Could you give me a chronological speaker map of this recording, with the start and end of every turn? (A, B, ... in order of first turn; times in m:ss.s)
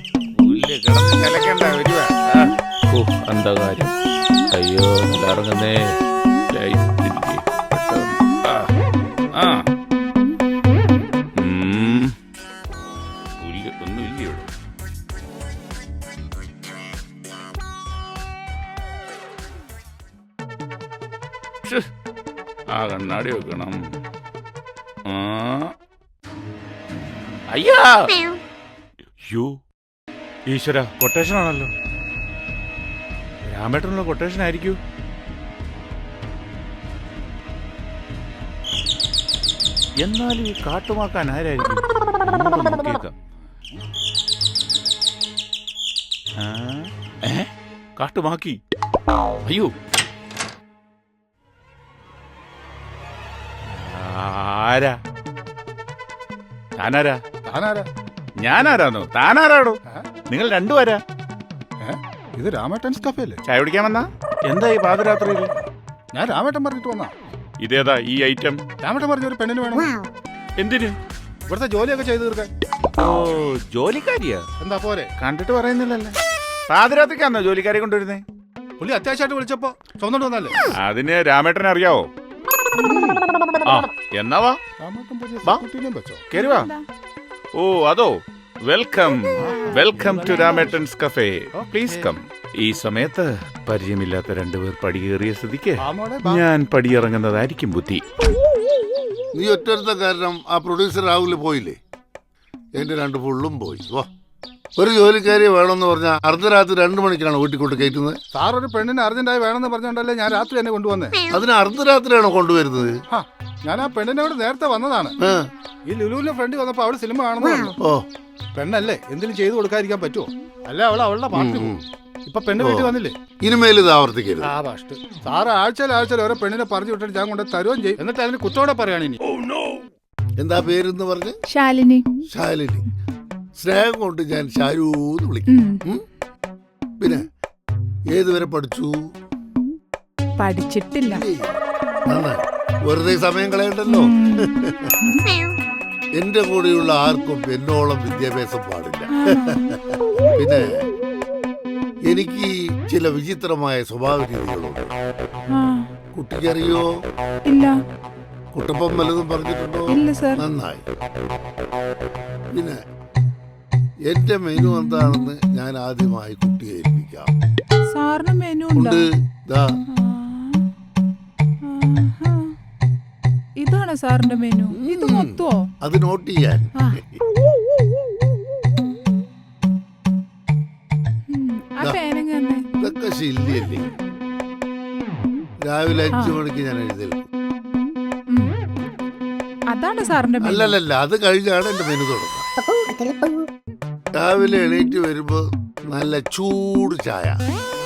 0:00.3-0:03.9 A
0:04.5-0:06.0 A
0:06.5-0:08.7 A
0:09.3-0:09.7 A
0:11.4-0:12.2 A
0:13.4-0:14.5 A
0:21.6-0:21.9 A
0:22.7-0:23.9 A
0:25.1-0:25.7 A
0:27.5-0:28.1 A
0:29.2-0:29.6 A
0:30.5-0:31.7 A
0:33.4-0:34.8 A
0:40.0-0:43.1 A
0:46.4-0:48.6 A
0:49.4-0:49.8 A
0:53.6-0:55.0 A
0:56.8-0:57.2 A
0:57.5-0:57.9 B
0:58.4-1:01.0 A
1:01.8-1:03.4 B
1:03.4-1:05.5 A
1:06.1-1:07.1 B
1:07.6-1:08.6 A
1:08.8-1:10.0 B
1:10.6-1:11.0 A
1:11.5-1:12.5 B
1:13.0-1:14.4 A
1:14.6-1:15.1 B
1:15.2-1:16.2 A
1:16.7-1:18.2 A
1:18.8-1:20.6 B
1:20.7-1:22.1 A
1:22.8-1:23.2 B
1:23.6-1:24.6 A
1:24.8-1:26.2 B
1:26.3-1:26.7 A
1:26.3-1:26.8 C
1:27.5-1:38.0 A
1:29.4-1:30.7 B
1:29.5-1:30.7 C
1:31.5-1:32.2 B
1:35.8-1:36.4 B
1:39.3-1:41.8 D
1:42.8-1:44.1 D
1:44.8-1:48.2 D
1:48.3-1:51.1 B
1:51.3-1:53.0 D
1:53.1-1:55.1 B
1:55.2-1:55.5 D
1:55.9-1:57.7 B
1:57.8-1:58.0 D
1:58.5-2:01.7 B
2:01.3-2:01.8 D
2:02.2-2:03.1 B
2:02.6-2:04.5 D
2:04.4-2:09.7 B
2:10.4-2:11.4 D
2:11.5-2:12.0 C
2:12.3-2:12.8 D
2:13.6-2:16.0 D
2:15.5-2:15.8 C
2:17.0-2:17.3 D
2:18.1-2:19.0 D
2:20.4-2:21.2 C
2:21.0-2:21.6 D
2:22.1-2:24.9 D
2:23.9-2:25.2 C
2:26.2-2:30.8 D
2:29.1-2:29.8 C
2:32.1-2:34.9 D
2:35.5-2:35.9 C
2:36.1-2:36.9 D
2:37.5-2:37.8 C
2:38.5-2:40.8 D
2:39.9-2:40.4 C
2:42.5-2:42.8 D
2:44.1-2:47.3 D
2:44.7-2:45.1 C
2:47.9-2:49.0 C
2:48.7-2:49.8 D
2:49.9-2:50.6 C
2:51.6-2:52.5 C
2:53.6-2:55.6 C
2:54.7-2:57.2 D
3:01.3-3:02.6 C
3:02.7-3:03.9 D
3:05.6-3:07.2 D
3:09.7-3:10.7 C
3:10.4-3:12.5 D
3:14.2-3:17.4 D